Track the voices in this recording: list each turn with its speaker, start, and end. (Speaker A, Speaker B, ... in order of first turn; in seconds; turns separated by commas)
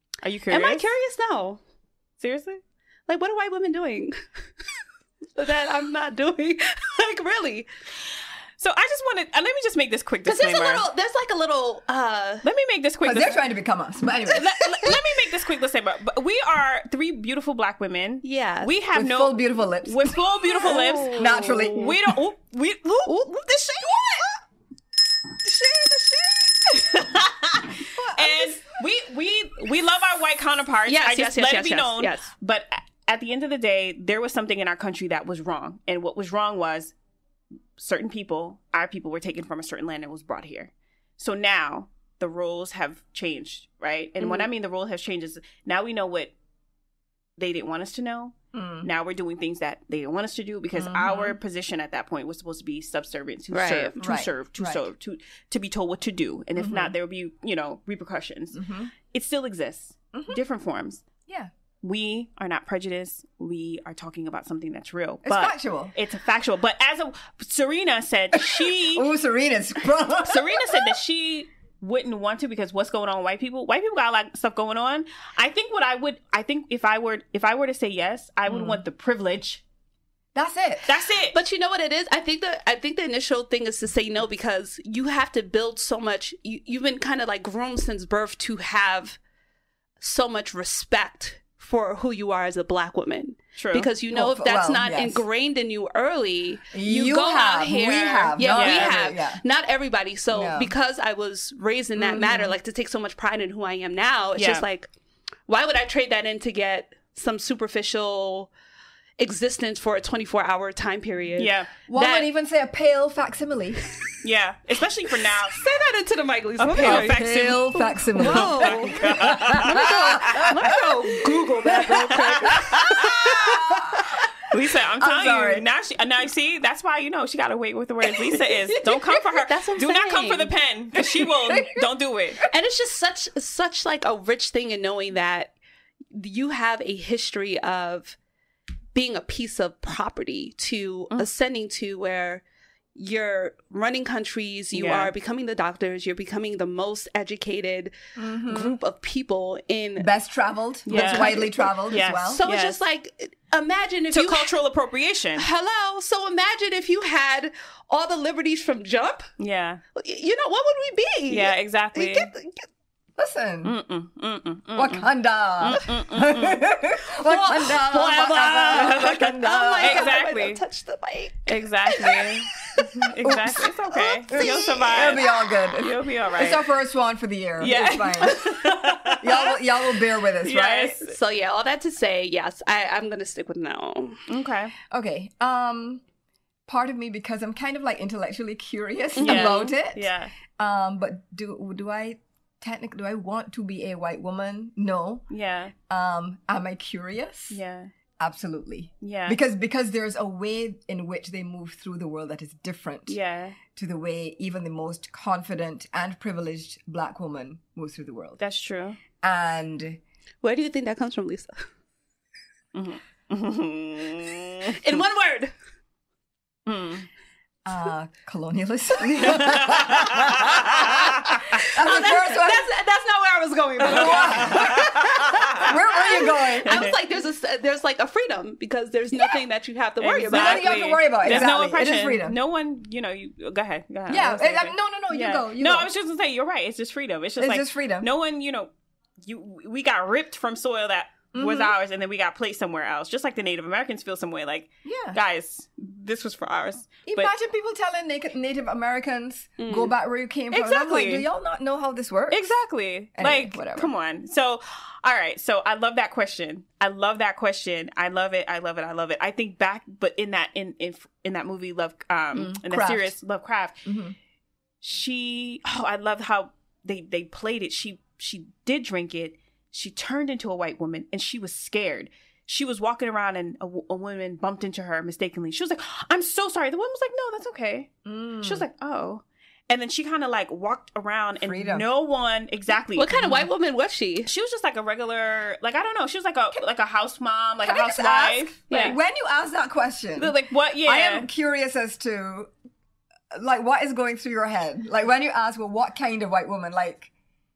Speaker A: 0.2-0.8, Speaker B: 0.5-1.6, Speaker A: 2.2-2.6, Speaker B: 3.1-4.2, Speaker B: 5.3-7.7, Speaker A: 8.6-10.8, Speaker B: 10.2-12.4, Speaker A: 12.4-13.4, Speaker C: 13.0-14.5, Speaker A: 14.3-24.2, Speaker B: 18.2-18.7, Speaker C: 18.9-21.9, Speaker B: 20.6-21.9, Speaker B: 23.1-24.2, Speaker B: 25.7-26.4, Speaker A: 26.7-36.9, Speaker C: 27.9-28.6, Speaker B: 30.9-32.3, Speaker A: 37.8-46.3, Speaker B: 44.2-44.5, Speaker A: 47.4-61.0, Speaker C: 48.5-48.9, Speaker C: 50.7-51.4, Speaker B: 53.5-53.9, Speaker C: 54.0-54.9, Speaker C: 56.5-56.9, Speaker C: 58.5-58.9, Speaker C: 60.1-60.4, Speaker A: 61.8-69.1, Speaker C: 65.2-65.9, Speaker C: 68.3-71.0, Speaker A: 70.2-79.6, Speaker C: 78.5-78.8, Speaker C: 80.3-80.9, Speaker A: 80.8-81.3, Speaker B: 81.3-89.2, Speaker B: 90.0-104.9, Speaker A: 93.6-93.9, Speaker C: 94.1-95.2, Speaker C: 96.7-99.4, Speaker A: 98.4-99.0, Speaker C: 100.3-100.7, Speaker C: 102.0-102.5, Speaker A: 104.4-104.6, Speaker B: 105.5-108.5, Speaker B: 109.2-112.3, Speaker A: 111.4-111.7, Speaker C: 111.9-113.8, Speaker A: 114.2-115.6, Speaker B: 115.5-123.8, Speaker A: 116.6-120.8, Speaker C: 116.7-124.2, Speaker A: 122.1-122.9, Speaker A: 124.5-132.4, Speaker C: 125.0-125.7, Speaker B: 129.3-130.5, Speaker C: 131.0-131.9, Speaker B: 132.5-135.5, Speaker B: 136.1-138.2, Speaker B: 138.9-142.4, Speaker B: 142.9-147.9, Speaker A: 144.7-145.1, Speaker C: 148.2-148.8, Speaker B: 148.4-150.2, Speaker C: 150.0-152.4, Speaker A: 150.9-152.8, Speaker B: 150.9-154.5, Speaker A: 154.1-155.4, Speaker B: 155.4-159.3, Speaker A: 159.4-159.8, Speaker B: 159.9-162.6, Speaker A: 161.3-162.3, Speaker C: 163.2-163.7, Speaker A: 163.6-165.1, Speaker C: 164.7-170.2, Speaker A: 165.6-166.6, Speaker B: 167.1-172.3, Speaker A: 168.7-169.1, Speaker A: 169.8-170.6, Speaker A: 171.4-176.7, Speaker C: 172.8-181.0, Speaker B: 174.3-175.4, Speaker A: 177.6-179.6, Speaker A: 180.4-181.1, Speaker B: 181.0-184.2, Speaker A: 184.3-184.7, Speaker C: 184.9-186.0, Speaker C: 186.7-195.2, Speaker B: 189.2-189.7, Speaker A: 189.2-190.3, Speaker A: 195.3-195.7, Speaker C: 195.9-197.6, Speaker A: 197.5-197.9, Speaker C: 198.2-203.2, Speaker A: 199.0-199.4, Speaker A: 203.1-203.6, Speaker C: 203.7-208.4, Speaker A: 208.4-209.0, Speaker C: 209.2-210.0, Speaker B: 210.4-211.6, Speaker A: 212.7-214.8, Speaker B: 214.7-215.5, Speaker A: 216.7-217.1, Speaker C: 217.6-222.7, Speaker A: 219.2-221.6, Speaker B: 221.7-231.5, Speaker C: 223.8-226.9, Speaker A: 223.9-225.7, Speaker A: 226.6-226.9, Speaker A: 230.0-238.7, Speaker C: 230.3-232.4, Speaker C: 234.1-235.9, Speaker C: 237.4-238.1, Speaker A: 239.2-247.3, Speaker C: 241.3-241.7, Speaker C: 244.8-245.2, Speaker C: 247.1-252.4, Speaker B: 249.6-249.9, Speaker A: 250.5-251.2, Speaker A: 252.3-263.8, Speaker C: 253.1-253.9, Speaker C: 262.3-263.1, Speaker C: 263.8-264.1, Speaker A: 264.8-277.9, Speaker C: 278.0-278.6, Speaker A: 278.4-283.1, Speaker C: 281.4-281.9, Speaker B: 282.9-284.3, Speaker C: 283.1-283.5, Speaker A: 284.2-289.0, Speaker C: 287.6-292.5, Speaker B: 288.7-288.9, Speaker A: 290.2-291.3, Speaker C: 293.3-297.1